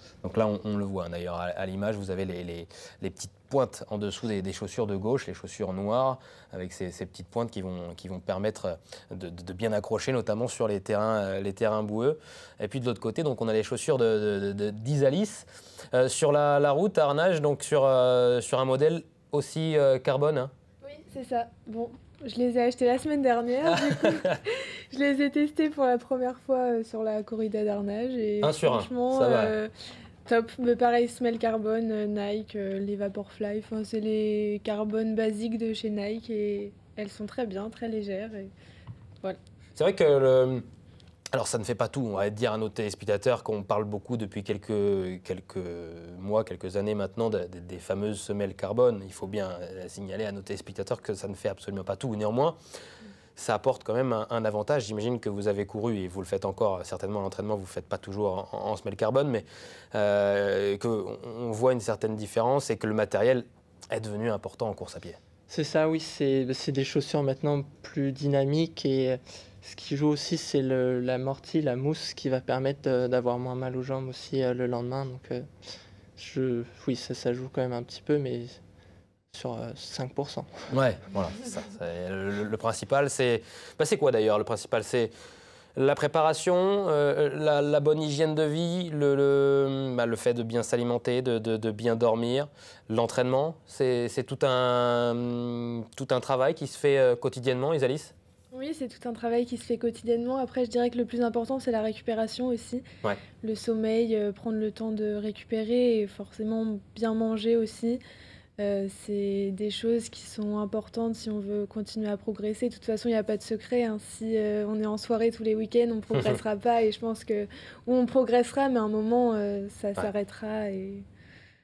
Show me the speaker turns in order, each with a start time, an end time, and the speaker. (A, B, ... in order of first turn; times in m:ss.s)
0:00.2-0:20.5 A
0:20.8-0:29.7 B
0:23.9-0:24.3 A
0:28.4-0:29.5 A
0:30.2-0:38.5 B
0:39.8-0:40.6 A
0:41.3-0:52.6 A
0:53.4-1:05.2 A
1:05.5-1:15.5 C
1:16.2-1:18.6 C
1:19.3-1:20.7 C
1:20.7-1:25.1 A
1:25.8-1:38.1 A
1:38.5-1:42.8 B
1:43.4-1:48.0 B
1:48.6-2:01.0 B
1:56.2-1:56.4 A